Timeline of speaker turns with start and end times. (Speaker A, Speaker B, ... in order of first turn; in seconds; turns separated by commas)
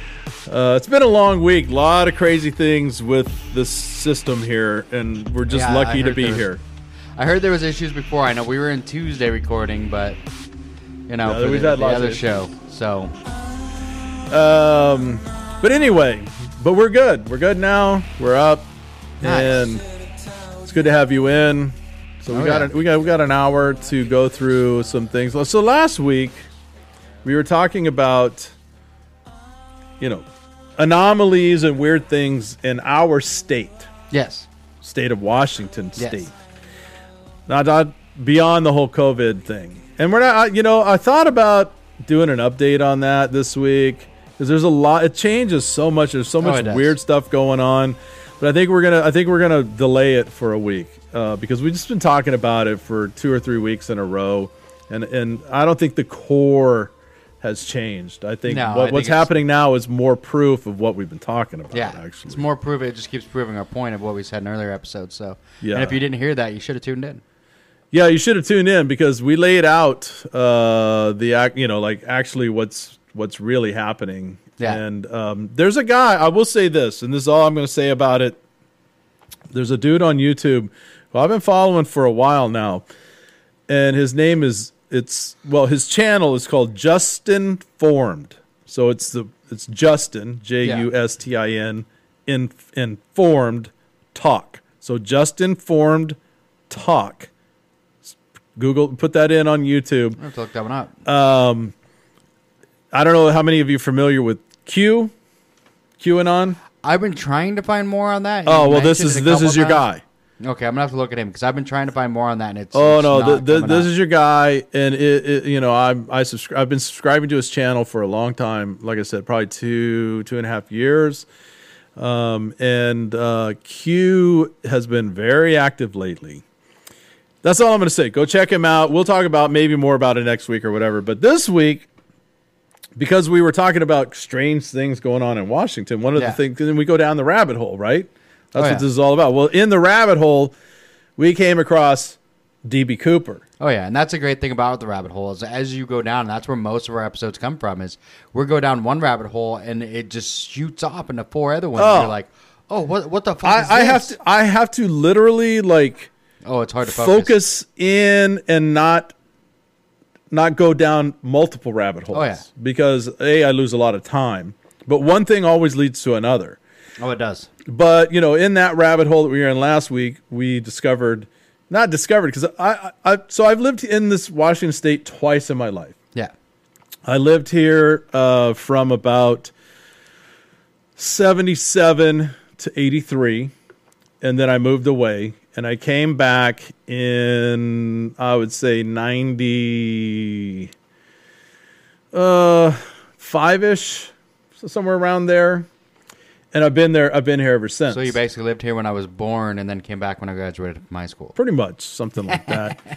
Speaker A: 0.5-6.6, Speaker B: 5.5-6.5, Speaker B: 7.2-10.2, Speaker B: 11.1-13.1, Speaker A: 11.2-12.3, Speaker A: 14.3-18.7, Speaker A: 19.2-19.8, Speaker B: 19.2-19.6, Speaker A: 20.6-26.5, Speaker B: 22.3-22.7, Speaker A: 27.2-28.5, Speaker A: 30.0-30.2, Speaker A: 30.8-33.9, Speaker B: 34.1-34.5, Speaker A: 34.8-36.3, Speaker B: 36.0-36.2, Speaker A: 37.5-62.4, Speaker B: 46.4-47.0, Speaker B: 58.5-59.3, Speaker B: 61.7-67.2, Speaker A: 65.6-66.0, Speaker A: 67.9-78.4, Speaker A: 79.5-82.8, Speaker A: 83.7-96.2, Speaker B: 90.6-90.9, Speaker A: 96.7-97.3, Speaker A: 98.1-100.2, Speaker B: 100.2-100.9, Speaker A: 101.0-101.7, Speaker A: 102.9-105.1, Speaker A: 106.0-106.6, Speaker B: 106.8-109.8, Speaker A: 108.5-110.0, Speaker B: 110.4-113.9, Speaker A: 112.7-121.3, Speaker A: 122.0-126.4, Speaker A: 127.4-131.9, Speaker A: 133.0-140.5, Speaker B: 138.6-138.8, Speaker A: 141.2-143.4, Speaker B: 143.6-154.2, Speaker A: 151.8-152.1, Speaker A: 153.4-156.1, Speaker B: 156.4-157.4, Speaker A: 156.8-159.1, Speaker A: 160.3-166.6, Speaker B: 162.1-162.4, Speaker B: 167.0-167.5, Speaker A: 167.7-175.9, Speaker A: 177.1-179.5, Speaker A: 181.0-183.5, Speaker A: 184.2-190.7, Speaker A: 192.1-195.7, Speaker A: 196.5-198.2, Speaker B: 197.9-201.4, Speaker A: 201.4-202.8, Speaker B: 202.3-202.8